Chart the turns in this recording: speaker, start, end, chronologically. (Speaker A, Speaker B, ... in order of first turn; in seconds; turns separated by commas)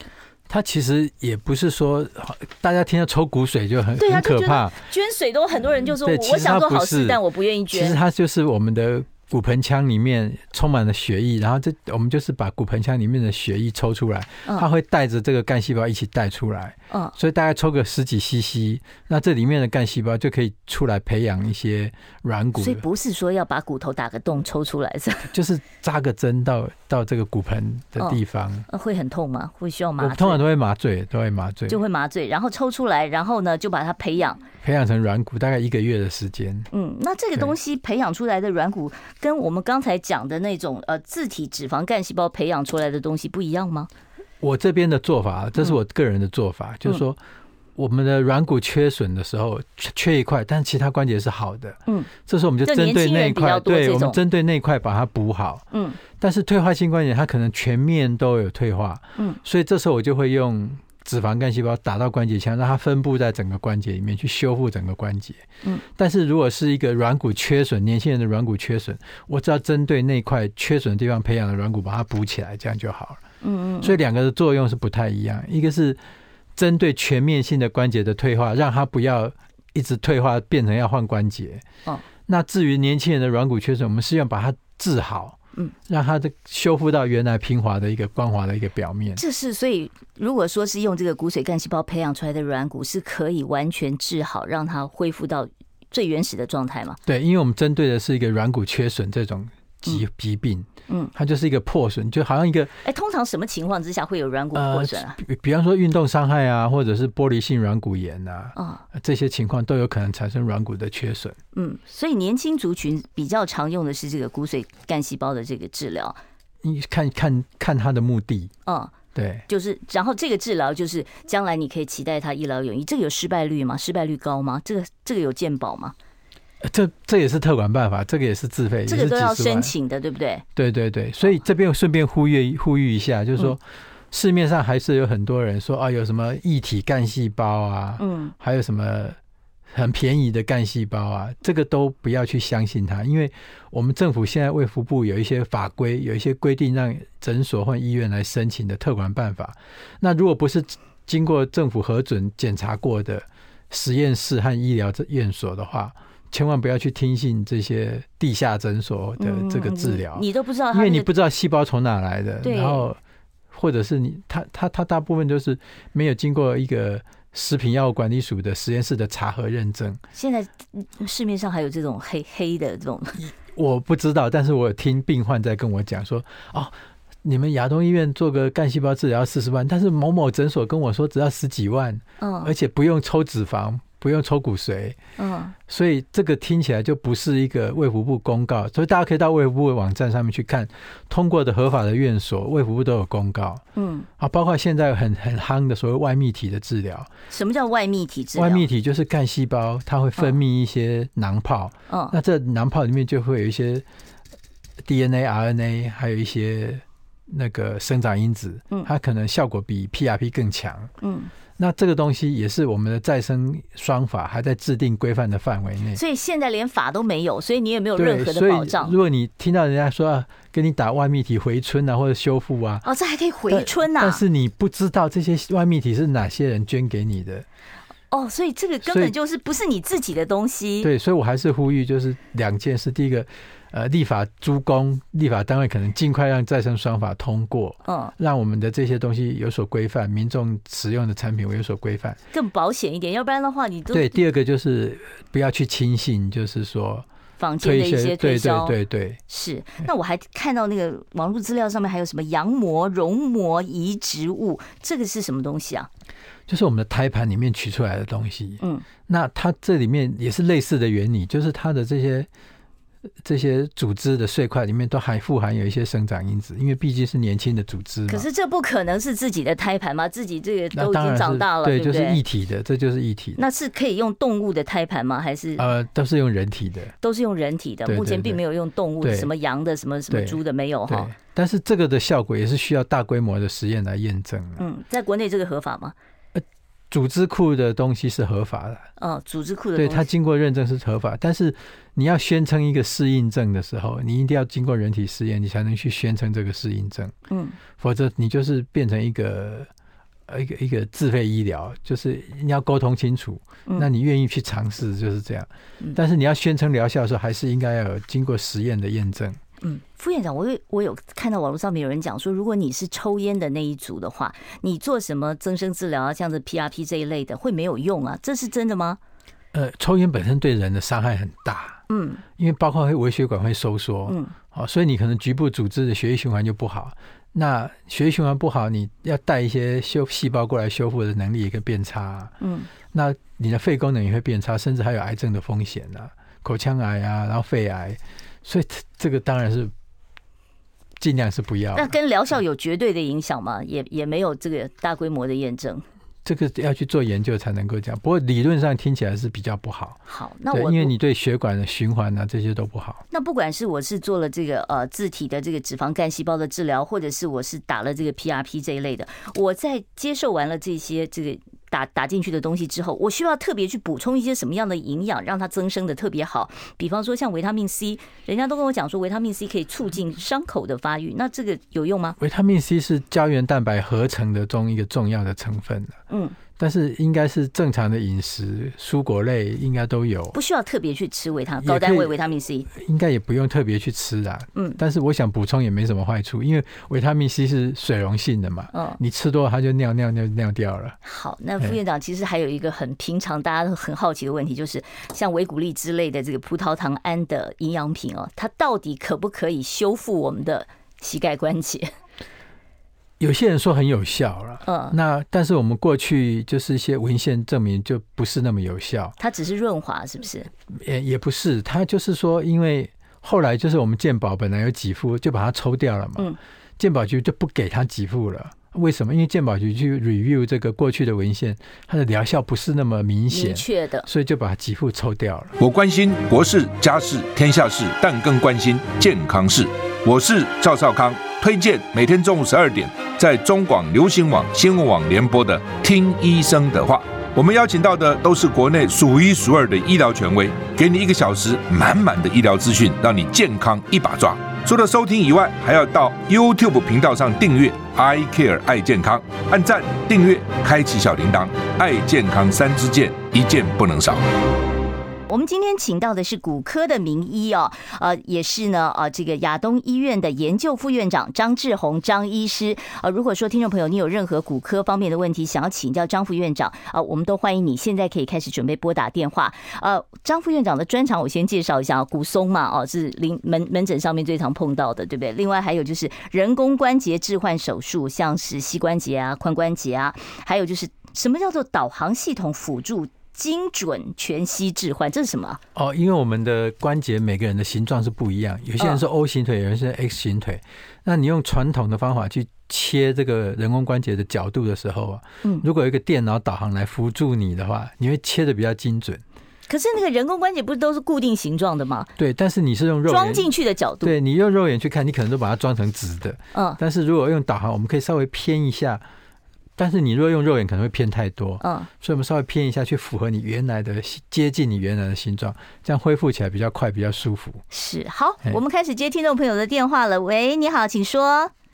Speaker A: 0.5-4.8, Speaker B: 4.0-8.0, Speaker A: 5.9-22.8, Speaker B: 22.6-25.3, Speaker A: 25.3-28.7, Speaker B: 28.0-30.4, Speaker A: 30.0-31.8, Speaker B: 31.7-34.4, Speaker A: 34.6-36.7, Speaker B: 36.7-43.9, Speaker A: 44.4-47.2, Speaker A: 47.8-55.6, Speaker B: 52.6-54.2, Speaker B: 55.7-56.0, Speaker A: 56.2-73.2, Speaker B: 73.4-74.0, Speaker A: 73.8-76.0, Speaker A: 76.5-81.6, Speaker A: 82.3-85.4, Speaker A: 85.9-89.2, Speaker B: 89.2-97.0, Speaker A: 97.1-102.7, Speaker B: 102.8-105.2, Speaker A: 104.5-111.4, Speaker B: 108.6-108.8, Speaker B: 111.5-116.2, Speaker A: 116.6-118.5, Speaker B: 118.7-118.9, Speaker A: 119.2-119.5, Speaker B: 119.5-125.9, Speaker A: 126.6-129.7, Speaker B: 128.9-130.4, Speaker A: 130.6-139.2, Speaker B: 138.0-138.3, Speaker A: 139.7-163.0, Speaker B: 159.2-161.1, Speaker B: 162.4-162.9, Speaker A: 163.5-170.0, Speaker B: 170.2-173.2, Speaker A: 173.2-185.0, Speaker B: 182.2-182.5, Speaker B: 185.2-185.6, Speaker A: 185.7-193.6, Speaker B: 193.8-194.1, Speaker A: 194.2-197.1, Speaker B: 197.3-198.7, Speaker A: 198.3-203.9, Speaker A: 204.8-210.9, Speaker B: 211.0-211.3, Speaker A: 211.6-216.0, Speaker B: 215.9-219.0, Speaker A: 218.0-222.9, Speaker B: 222.8-224.2, Speaker A: 223.5-227.5, Speaker B: 228.1-230.9, Speaker A: 228.8-229.1, Speaker A: 230.8-242.2, Speaker B: 237.9-238.1, Speaker B: 242.3-244.1, Speaker A: 243.9-247.1, Speaker B: 247.4-248.8, Speaker A: 247.6-249.2, Speaker B: 249.3-255.9, Speaker A: 256.5-262.3, Speaker A: 263.2-268.3, Speaker B: 268.1-272.2, Speaker A: 270.7-273.4, Speaker B: 273.4-275.7, Speaker A: 275.6-276.9, Speaker B: 277.0-281.1, Speaker A: 277.9-278.4, Speaker A: 279.0-279.3, Speaker A: 280.1-284.6, Speaker B: 284.6-285.9, Speaker A: 286.3-288.9, Speaker B: 289.0-290.1, Speaker A: 289.8-297.1, Speaker B: 297.3-297.6, Speaker A: 297.8-299.7, Speaker A: 300.3-309.4, Speaker B: 309.6-319.0, Speaker A: 319.5-321.8, Speaker B: 321.9-322.2, Speaker A: 322.4-332.3, Speaker B: 324.1-324.3, Speaker B: 332.4-332.7, Speaker A: 332.9-339.7, Speaker A: 341.0-341.9, Speaker B: 341.7-345.8, Speaker A: 346.2-350.0, Speaker B: 350.1-350.9, Speaker A: 350.5-353.0, Speaker B: 353.1-372.2, Speaker A: 372.2-376.0, Speaker B: 376.1-376.4, Speaker A: 376.6-380.4, Speaker B: 380.3-382.7, Speaker A: 381.6-382.2, Speaker A: 382.7-391.0, Speaker B: 384.6-384.8, Speaker B: 388.7-389.0, Speaker B: 391.0-401.9, Speaker A: 403.2-409.1, Speaker B: 404.7-405.0, Speaker B: 409.2-410.5, Speaker A: 410.7-425.6, Speaker B: 423.3-424.1, Speaker C: 425.6-454.3, Speaker B: 455.3-485.6, Speaker A: 485.8-499.2, Speaker B: 499.7-502.1, Speaker A: 502.2-503.5, Speaker B: 503.1-504.1, Speaker A: 504.0-509.0, Speaker B: 506.5-506.8, Speaker A: 509.8-517.6, Speaker B: 511.6-511.9, Speaker B: 517.7-521.5